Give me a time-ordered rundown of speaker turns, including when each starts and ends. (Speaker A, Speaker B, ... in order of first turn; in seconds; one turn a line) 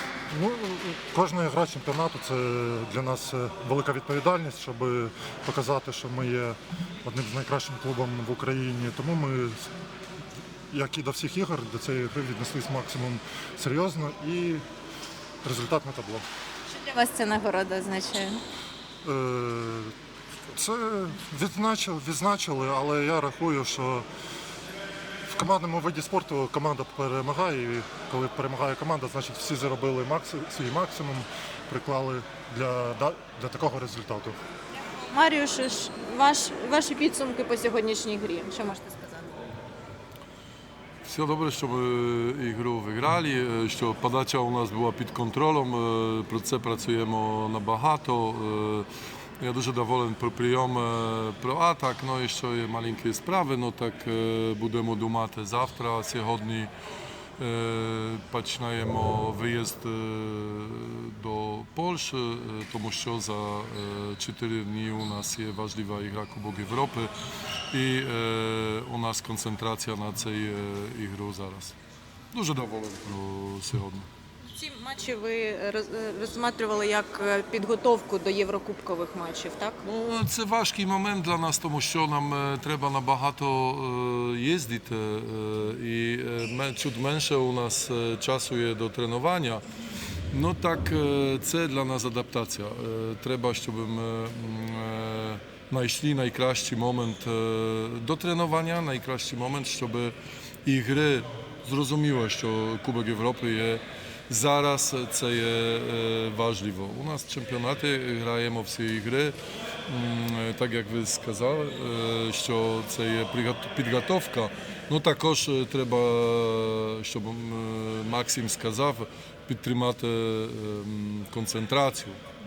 Speaker A: 0.3-9.7
Speaker A: 10.7-14.6
Speaker A: 15.4-16.2
Speaker B: 16.7-18.4
Speaker A: 19.0-19.9
Speaker A: 20.5-24.1
Speaker A: 25.3-34.4
Speaker B: 34.8-39.2
Speaker C: 41.0-48.9
Speaker C: 49.4-56.7
Speaker C: 57.4-67.1
Speaker C: 67.7-71.8
Speaker C: 72.3-74.1
Speaker B: 74.5-79.8
Speaker C: 79.8-89.6
Speaker C: 90.3-109.3
Speaker C: 109.9-122.2